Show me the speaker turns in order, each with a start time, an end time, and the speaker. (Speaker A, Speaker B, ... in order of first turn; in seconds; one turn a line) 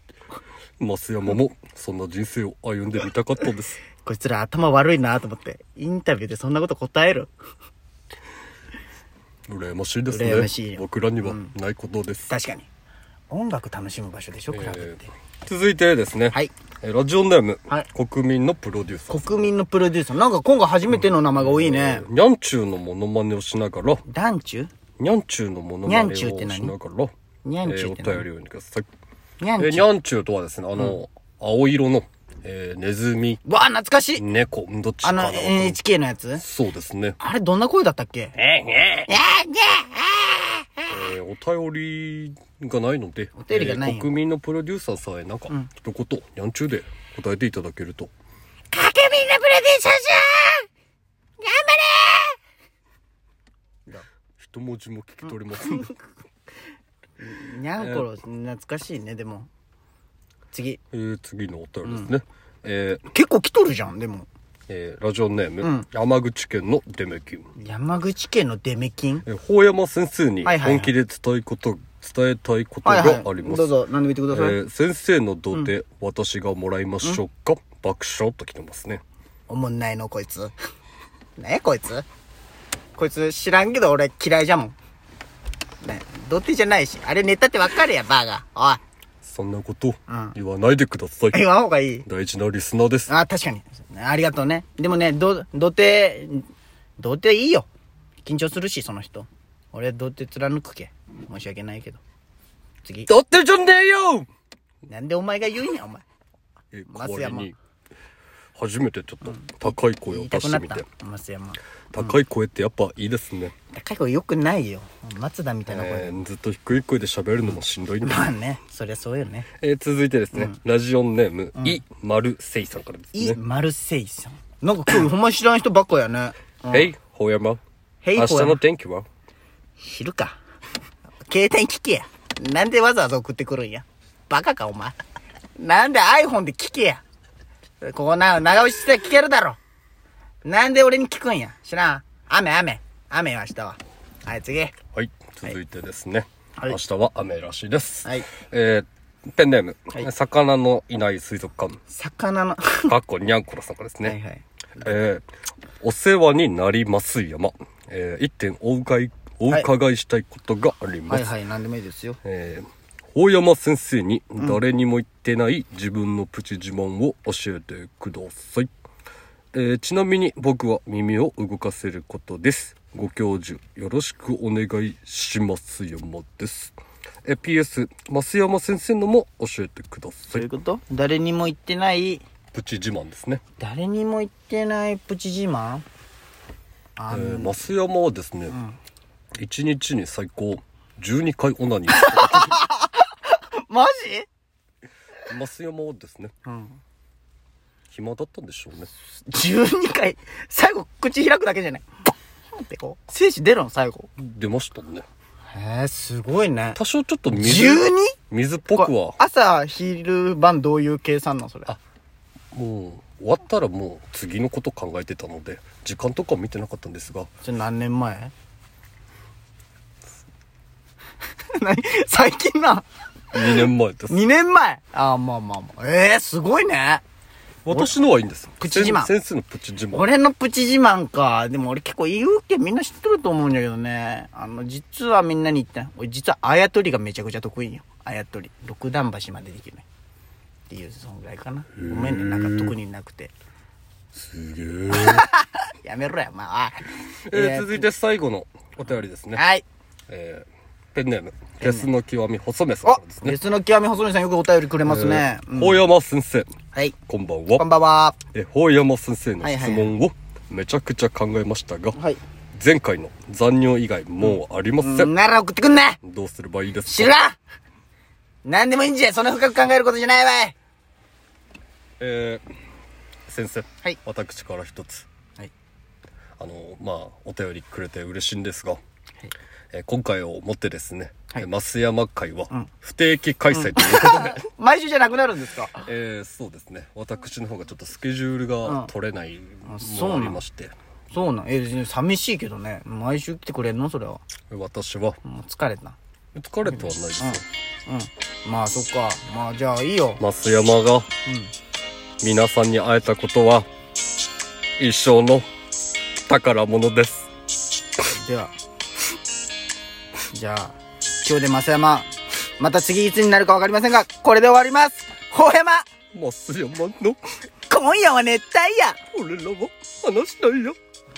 Speaker A: 0.8-3.8
Speaker B: 4.0-7.3
Speaker A: 9.5-12.3
Speaker B: 10.1-11.5
Speaker B: 12.3-12.7
Speaker B: 13.3-15.1
Speaker A: 14.5-19.5
Speaker B: 19.1-22.1
Speaker A: 21.4-24.0
Speaker B: 24.1-24.7
Speaker A: 25.0-27.1
Speaker B: 25.8-26.7
Speaker B: 27.4-28.2
Speaker A: 27.6-28.9
Speaker B: 29.4-29.9
Speaker A: 29.6-33.4
Speaker B: 33.4-34.2
Speaker A: 34.2-35.8
Speaker B: 35.0-36.4
Speaker A: 36.4-37.2
Speaker B: 37.2-38.4
Speaker A: 38.4-39.1
Speaker B: 39.1-40.9
Speaker A: 40.9-48.1
Speaker B: 43.4-44.1
Speaker B: 48.7-50.7
Speaker B: 51.4-52.4
Speaker A: 54.4-55.9
Speaker B: 55.5-56.0
Speaker B: 57.2-59.5
Speaker A: 57.8-58.1
Speaker B: 60.5-60.8
Speaker A: 60.9-63.0
Speaker B: 61.8-62.1
Speaker B: 63.1-64.3
Speaker A: 64.7-67.5
Speaker B: 65.6-65.9
Speaker B: 67.6-69.2
Speaker A: 69.2-73.7
Speaker B: 70.4-70.9
Speaker B: 72.8-74.6
Speaker A: 74.3-79.0
Speaker B: 79.5-80.5
Speaker B: 81.4-82.0
Speaker B: 83.0-84.8
Speaker B: 85.8-88.8
Speaker A: 89.2-91.5
Speaker B: 90.1-90.3
Speaker B: 91.3-92.0
Speaker A: 92.0-93.1
Speaker B: 93.1-96.5
Speaker B: 97.0-97.7
Speaker B: 98.2-102.0
Speaker B: 102.8-103.1
Speaker A: 103.1-104.3
Speaker B: 104.9-106.0
Speaker A: 106.7-107.6
Speaker B: 106.9-107.5
Speaker A: 108.5-110.8
Speaker B: 109.3-112.2
Speaker A: 111.9-113.5
Speaker B: 113.7-116.2
Speaker A: 115.7-118.3
Speaker B: 118.0-119.5
Speaker A: 119.6-123.4
Speaker B: 120.3-120.6
Speaker B: 121.5-121.8
Speaker B: 123.1-126.9
Speaker A: 126.7-127.6
Speaker B: 128.0-128.6
Speaker A: 128.1-129.1
Speaker B: 129.8-130.4
Speaker B: 131.2-135.0
Speaker B: 135.6-137.0
Speaker B: 137.8-139.6
Speaker B: 140.4-144.8
Speaker A: 144.9-151.8
Speaker B: 148.0-148.3
Speaker B: 151.9-152.9
Speaker A: 152.9-154.2
Speaker B: 154.0-154.4
Speaker A: 154.8-155.2
Speaker A: 155.8-161.3
Speaker B: 161.1-162.2
Speaker A: 162.2-168.7
Speaker A: 169.5-180.5
Speaker B: 180.3-182.2
Speaker A: 182.5-183.4
Speaker B: 183.6-185.8
Speaker B: 187.0-187.6
Speaker A: 187.1-188.6
Speaker B: 188.5-188.8
Speaker A: 189.3-192.6
Speaker B: 191.9-194.3
Speaker A: 195.2-196.3
Speaker B: 196.4-196.8
Speaker A: 197.9-198.9
Speaker B: 199.3-201.9
Speaker B: 202.5-204.1
Speaker A: 204.2-205.1
Speaker B: 205.5-208.2
Speaker A: 206.8-209.2
Speaker B: 208.7-211.8
Speaker A: 212.5-217.3
Speaker B: 217.4-218.3
Speaker B: 221.4-227.0
Speaker A: 223.3-224.2
Speaker A: 227.6-230.1
Speaker B: 228.6-229.1
Speaker B: 229.9-239.8
Speaker B: 240.7-243.3
Speaker A: 241.8-242.7
Speaker A: 244.1-245.3
Speaker B: 244.9-247.8
Speaker A: 247.2-249.4
Speaker B: 249.3-249.6
Speaker A: 250.1-253.4
Speaker B: 251.6-251.9
Speaker B: 252.8-255.8
Speaker A: 254.8-256.5
Speaker A: 257.1-257.7
Speaker B: 257.6-258.2
Speaker A: 258.3-262.0
Speaker B: 259.4-259.9
Speaker B: 261.9-262.2
Speaker A: 262.5-265.1
Speaker B: 264.2-266.0
Speaker A: 266.0-267.1
Speaker B: 266.9-267.4
Speaker B: 268.4-270.5
Speaker A: 272.0-272.4
Speaker A: 273.3-275.1
Speaker A: 276.4-278.8
Speaker A: 279.7-284.4
Speaker B: 283.5-285.9
Speaker A: 285.8-290.7
Speaker B: 288.6-288.9
Speaker B: 289.6-290.4
Speaker B: 291.1-294.2
Speaker A: 294.5-295.2
Speaker B: 295.2-295.9
Speaker A: 296.3-297.4
Speaker B: 296.6-300.2
Speaker A: 300.2-301.1
Speaker B: 301.2-301.5
Speaker A: 302.2-303.7
Speaker A: 304.8-305.5
Speaker A: 306.2-307.3
Speaker B: 308.1-308.5
Speaker B: 310.3-315.9
Speaker A: 316.1-317.2
Speaker B: 317.7-319.0
Speaker A: 319.1-320.8